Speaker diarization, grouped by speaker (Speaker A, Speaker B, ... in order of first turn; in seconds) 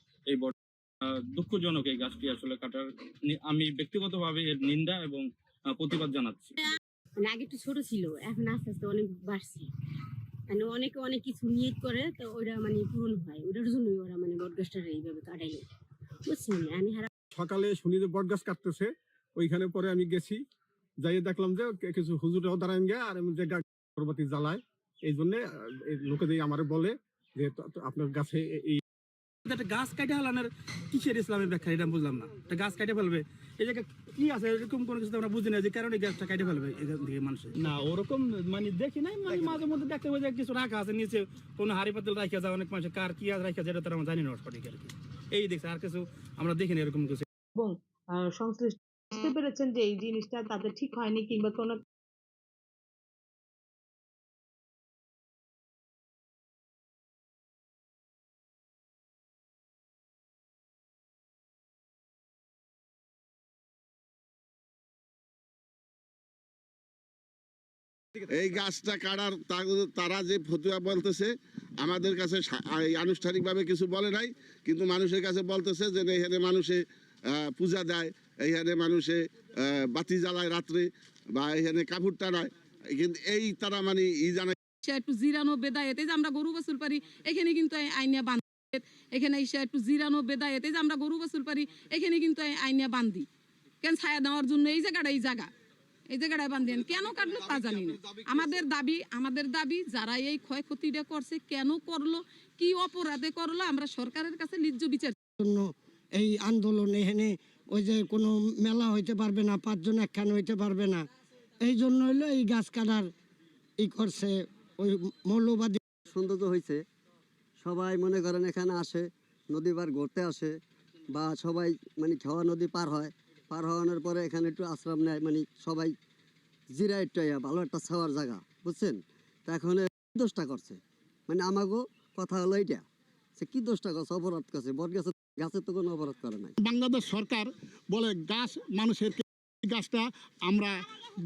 Speaker A: 0.3-6.5
Speaker B: 7.2-9.7, 10.5-15.7, 16.3-17.1
Speaker C: 17.3-20.4, 21.0-28.8
Speaker D: 29.5-47.2
Speaker E: 47.6-51.8
Speaker F: 68.3-84.5
Speaker G: 84.8-93.3, 93.8-95.5, 96.1-105.2
Speaker H: 105.4-111.0, 111.6-113.1, 113.8-115.8
Speaker I: 116.1-116.8, 117.6-120.6, 121.1-125.9, 126.7-132.8, 133.4-136.6
Speaker J: 136.6-140.8